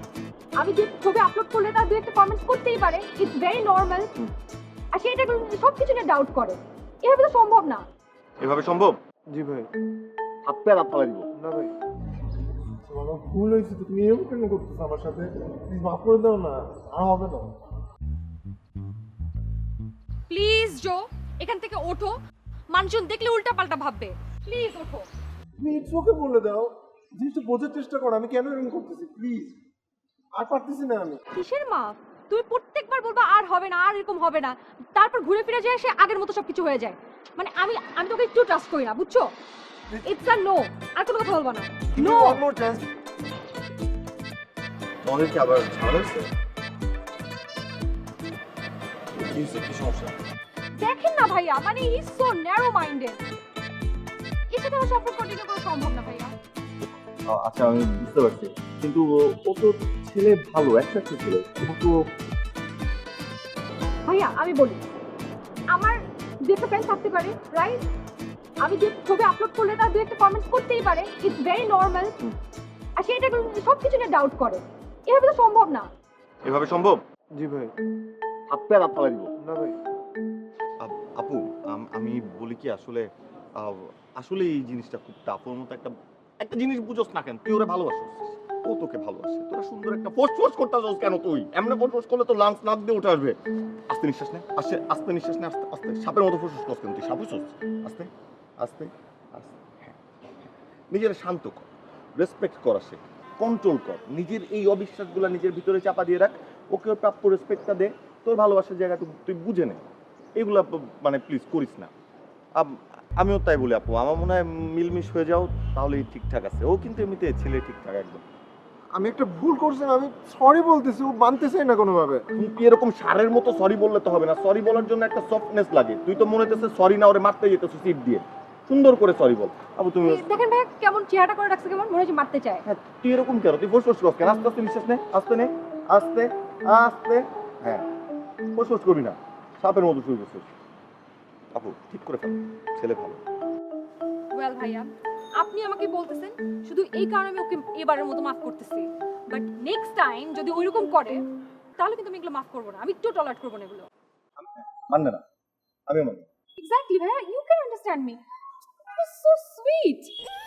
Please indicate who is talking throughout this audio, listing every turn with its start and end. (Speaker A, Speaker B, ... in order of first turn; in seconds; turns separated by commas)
Speaker A: 0.6-4.1, Speaker A: 4.9-7.8, Speaker B: 8.4-9.0, Speaker C: 9.3-9.7, Speaker B: 10.4-11.3, Speaker C: 11.4-11.7, Speaker C: 12.8-17.5, Speaker A: 20.3-22.1, Speaker A: 22.7-25.1, Speaker C: 25.6-29.6, Speaker C: 30.4-31.2, Speaker A: 31.4-39.3, Speaker C: 39.9-40.2, Speaker A: 40.0-42.4, Speaker C: 41.9-42.9, Speaker B: 45.0-46.3, Speaker B: 49.2-50.2, Speaker A: 50.8-53.2, Speaker A: 54.5-56.3, Speaker B: 57.3-62.0, Speaker A: 64.1-64.8, Speaker A: 65.7-67.8, Speaker A: 68.6-72.2, Speaker A: 73.0-75.9, Speaker B: 76.5-77.0, Speaker C: 77.3-77.7, Speaker B: 78.5-79.3, Speaker C: 79.4-79.8, Speaker B: 80.8-83.1, Speaker B: 83.6-93.4, Speaker B: 93.9-98.1, Speaker B: 98.6-100.0, Speaker B: 100.9-109.8, Speaker B: 110.4-111.9, Speaker B: 112.5-118.2, Speaker C: 118.9-122.3, Speaker B: 122.3-130.3, Speaker A: 130.0-132.6, Speaker B: 132.7-137.8, Speaker B: 138.6-140.5, Speaker B: 141.5-143.2, Speaker A: 144.3-151.2, Speaker A: 151.8-153.9, Speaker B: 154.4-155.2, Speaker B: 155.9-156.2, Speaker A: 156.6-158.2, Speaker A: 158.8-160.1